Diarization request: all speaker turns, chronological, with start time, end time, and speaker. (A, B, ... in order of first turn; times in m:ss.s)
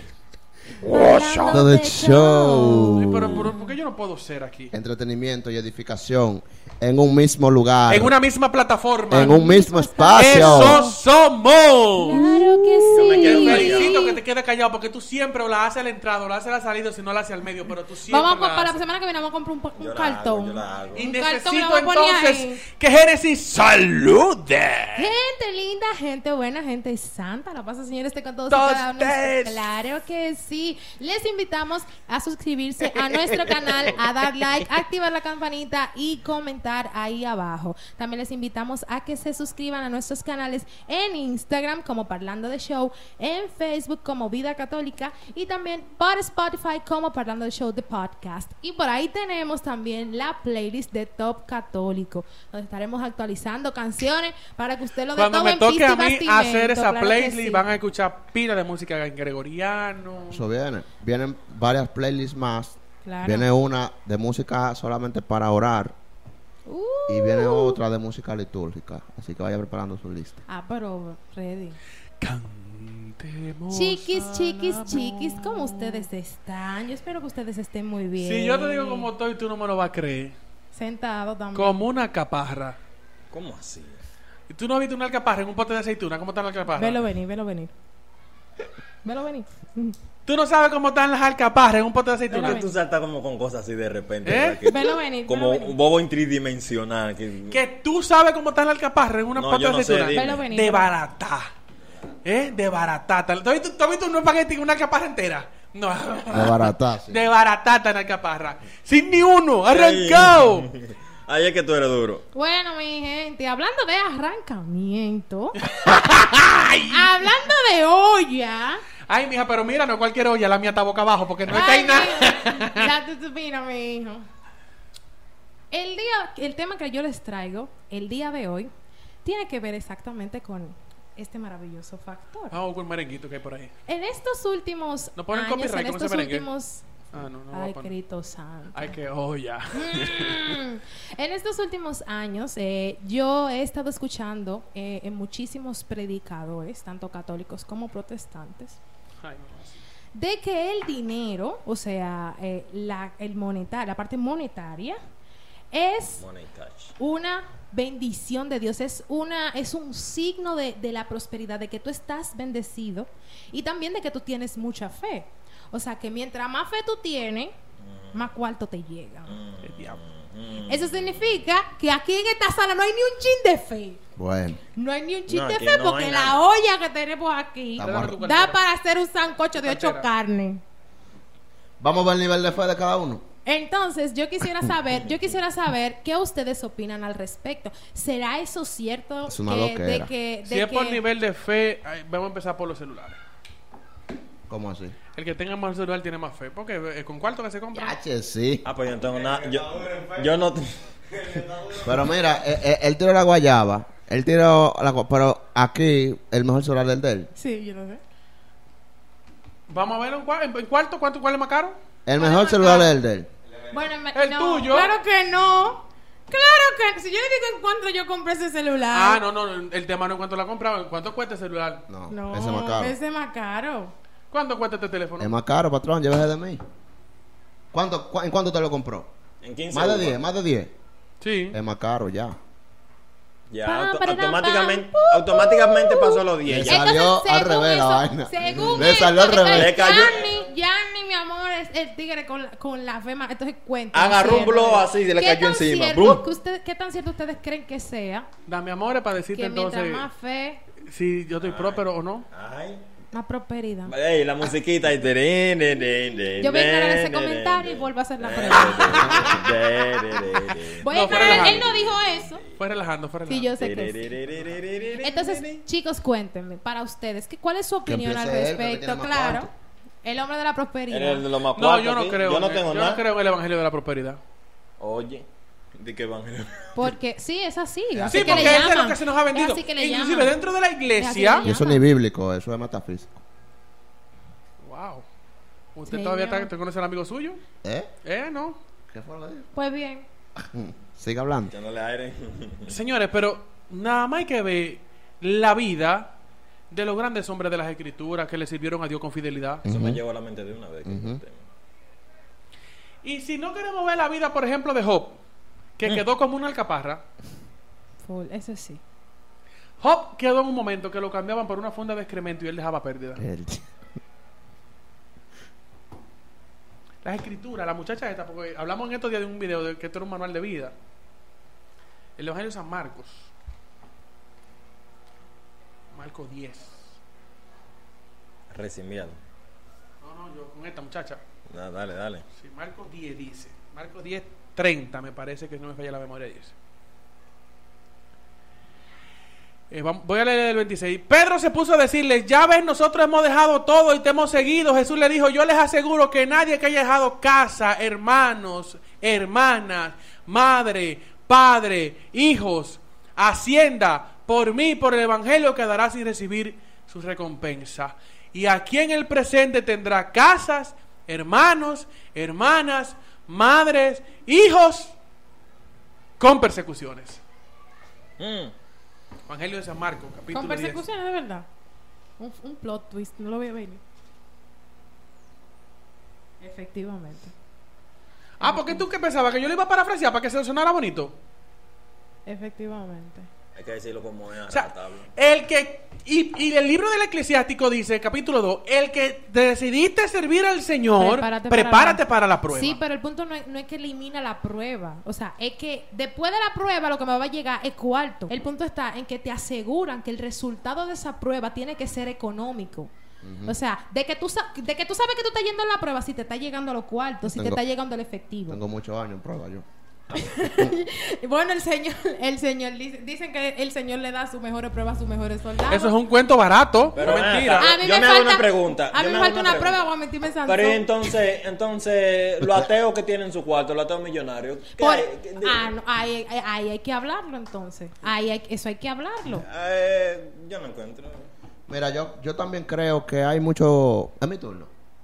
0:00.8-0:03.7 A
0:00.9-0:01.6 B
0:01.5-0:03.5 C
0:02.9-0:04.7 B
0:04.7-0:08.1 C
0:07.9-0:09.4 B
0:09.1-0:10.8 C
0:09.1-0:11.0 A
0:10.1-0:12.4 B
0:12.0-0:14.2 A
0:12.9-0:14.0 D
0:13.0-0:18.8 B
0:18.1-0:22.6 A
0:19.8-0:21.1 D
0:20.9-0:25.1 B
0:24.9-0:57.6 A
0:28.5-0:29.7 B
0:55.1-1:00.4 B
1:00.3-1:05.9 C
1:03.0-1:03.5 A
1:06.7-1:07.8 A
1:07.1-1:10.4 C
1:10.5-1:11.8 A
1:12.2-1:16.1 B
1:13.7-1:19.1 A
1:18.2-1:20.4 B
1:20.7-1:21.8 A
1:21.5-1:22.8 B
1:23.3-1:24.0 D
1:24.5-1:27.0 B
1:26.7-1:27.7 A
1:29.0-1:29.9 A
1:30.2-1:32.6 B
1:32.3-1:37.6 D
1:32.3-1:32.7 A
1:34.2-1:34.6 B
1:34.6-1:35.7 A
1:37.5-1:41.5 B
1:39.3-1:40.4 D
1:40.1-1:40.9 A
1:42.2-1:50.7 B
1:46.3-1:47.2 C
1:49.7-1:52.2 D
1:52.3-1:55.6 A
1:55.6-1:57.3 B
1:56.9-1:58.8 A
1:59.1-2:02.9 B
2:01.4-2:04.2 A
2:05.7-2:08.7 A
2:09.2-2:12.6 A
2:12.5-2:13.7 B
2:13.9-2:16.9 A
2:15.2-2:16.5 B
2:17.1-2:17.9 B
2:17.5-2:19.0 A
2:18.7-2:20.6 B
2:19.7-2:28.8 A
2:29.2-2:29.8 B
2:30.1-2:35.0 A
2:35.7-2:36.2 A
2:36.2-2:36.9 D
2:37.0-2:47.5 A
2:47.8-2:48.2 D
2:48.1-2:49.4 A
2:49.3-2:51.3 D
2:49.6-2:50.0 B
2:50.6-2:54.0 A
2:54.2-2:54.6 C
2:54.7-3:00.6 A
2:55.3-2:56.4 D
2:57.8-2:58.2 C
2:57.8-2:58.6 B
2:59.5-3:00.1 B
3:01.8-3:03.2 C
3:03.4-3:11.0 A
3:09.3-3:10.1 C
3:10.4-3:13.2 B
3:14.5-3:15.0 C
3:15.1-3:17.9 B
3:17.7-3:18.6 C
3:18.6-3:21.8 D
3:21.8-3:27.3 C
3:27.3-3:28.0 A
3:29.7-3:31.8 B
3:32.0-3:33.3 C
3:32.2-3:32.9 A
3:33.7-3:39.2 A
3:34.1-3:35.0 B
3:38.9-3:41.8 B
3:41.9-3:43.0 C
3:42.1-3:43.9 A
3:44.3-3:45.4 B
3:45.2-3:46.6 C
3:47.7-3:49.1 C
3:49.4-3:50.2 D
3:49.7-3:50.7 C
3:51.2-3:51.6 B
3:51.5-3:52.4 C
3:53.5-3:56.9 D
3:53.6-4:08.3 A
3:56.4-3:59.8 C
3:59.5-4:00.4 D
4:03.9-4:06.2 D
4:08.5-4:10.1 B
4:09.3-4:10.6 A
4:10.8-4:12.3 B
4:11.4-4:11.8 D
4:12.3-4:12.9 D
4:13.1-4:13.9 A
4:13.9-4:22.5 D
4:16.4-4:19.3 A
4:20.8-4:22.4 A
4:20.8-4:21.7 B
4:22.6-4:23.5 B
4:23.3-4:24.1 A
4:23.6-4:25.6 D
4:25.0-4:29.5 A
4:27.8-4:29.5 C
4:30.0-4:31.2 A
4:30.9-4:33.0 D
4:31.5-4:34.2 B
4:34.8-4:36.9 D
4:36.7-4:40.4 A
4:37.9-4:38.7 C
4:38.1-4:41.5 B
4:40.9-4:41.9 A
4:41.4-4:43.2 C
4:44.6-4:45.0 B
4:45.7-4:47.4 B
4:45.9-4:46.5 A
4:47.6-4:47.9 C
4:48.0-4:48.6 B
4:48.9-4:49.5 C
4:49.5-4:50.1 A
4:50.4-4:51.6 C
4:51.5-4:52.8 D
4:52.7-4:56.1 B
4:56.7-4:59.6 B
4:59.6-5:00.0 C
4:59.6-5:01.4 D
5:00.8-5:01.2 C
5:03.0-5:05.2 B
5:05.8-5:07.0 B
5:08.0-5:08.8 A
5:09.8-5:13.2 B
5:13.2-5:13.7 C
5:17.0-5:20.7 B
5:22.2-5:23.3 B
5:25.9-5:27.0 B
5:28.5-5:29.2 D
5:30.0-5:31.2 B
5:31.5-5:32.2 D
5:32.4-5:36.5 B
5:39.7-6:05.0 B
6:06.2-6:07.2 B
6:08.2-6:08.5 D
6:09.3-6:10.8 B
6:10.3-6:11.5 A
6:12.2-6:13.8 A
6:16.4-6:17.3 A
6:18.4-6:21.2 B
6:18.4-6:18.8 A
6:22.2-6:23.3 A
6:23.6-6:25.1 D
6:24.5-6:32.8 B
6:31.0-6:42.9 A
6:43.2-6:43.6 C
6:43.4-6:48.6 A
6:47.3-6:47.6 C
6:48.5-6:49.6 C
6:50.1-6:55.9 A
6:55.7-6:57.8 B
6:56.9-6:59.8 D
6:57.5-7:01.0 A
7:00.4-7:05.7 D
7:02.4-7:02.7 C
7:04.8-7:09.4 A
7:09.3-7:11.3 D
7:11.7-7:14.7 C